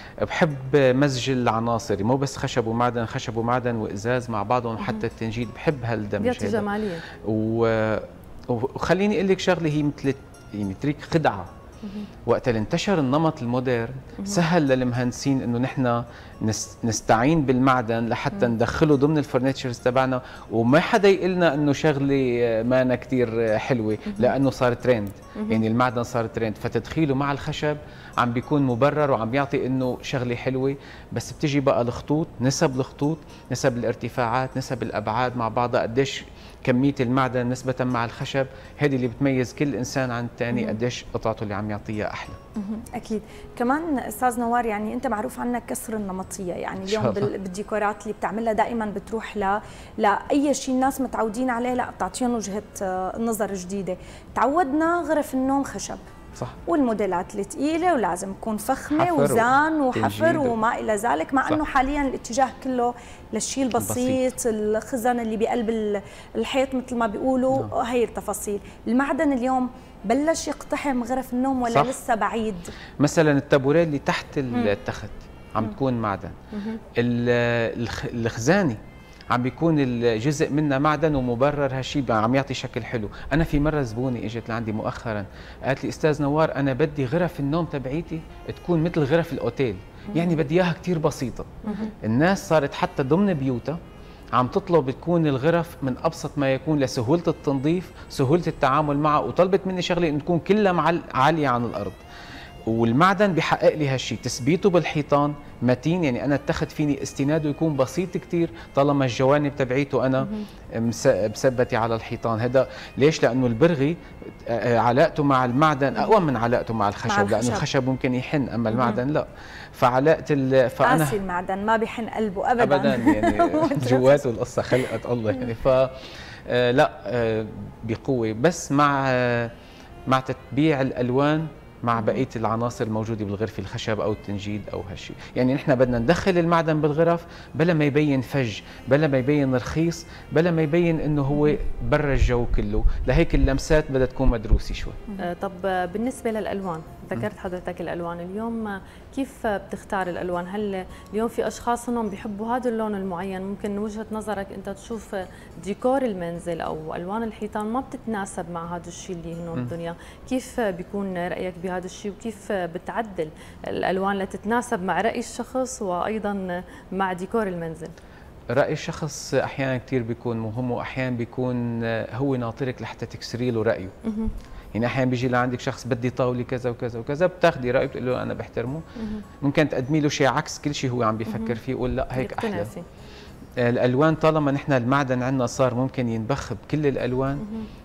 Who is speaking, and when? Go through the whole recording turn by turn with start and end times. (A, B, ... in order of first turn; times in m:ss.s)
0:00.2-0:11.5 A
0:06.2-0:07.0 B
0:12.3-0:42.4 A
0:42.6-0:56.0 C
0:46.8-0:47.3 A
0:56.7-1:12.7 C
0:59.0-1:00.6 A
1:03.8-1:04.2 A
1:11.7-1:12.0 A
1:13.0-1:16.4 A
1:17.0-1:18.8 A
1:19.3-1:33.8 A
1:31.6-1:31.9 C
1:31.6-1:31.9 B
1:34.4-1:42.0 A
1:42.7-2:01.2 A
1:57.1-1:57.6 C
2:00.8-2:04.2 C
2:02.6-2:09.5 A
2:10.1-2:25.0 A
2:25.2-2:47.9 B
2:48.5-2:54.0 A
2:54.1-2:54.3 B
2:54.8-2:58.8 A
2:59.0-2:59.2 B
2:59.4-3:02.7 A
3:01.3-3:01.6 B
3:02.2-3:02.8 B
3:03.6-3:07.4 A
3:07.4-3:07.7 B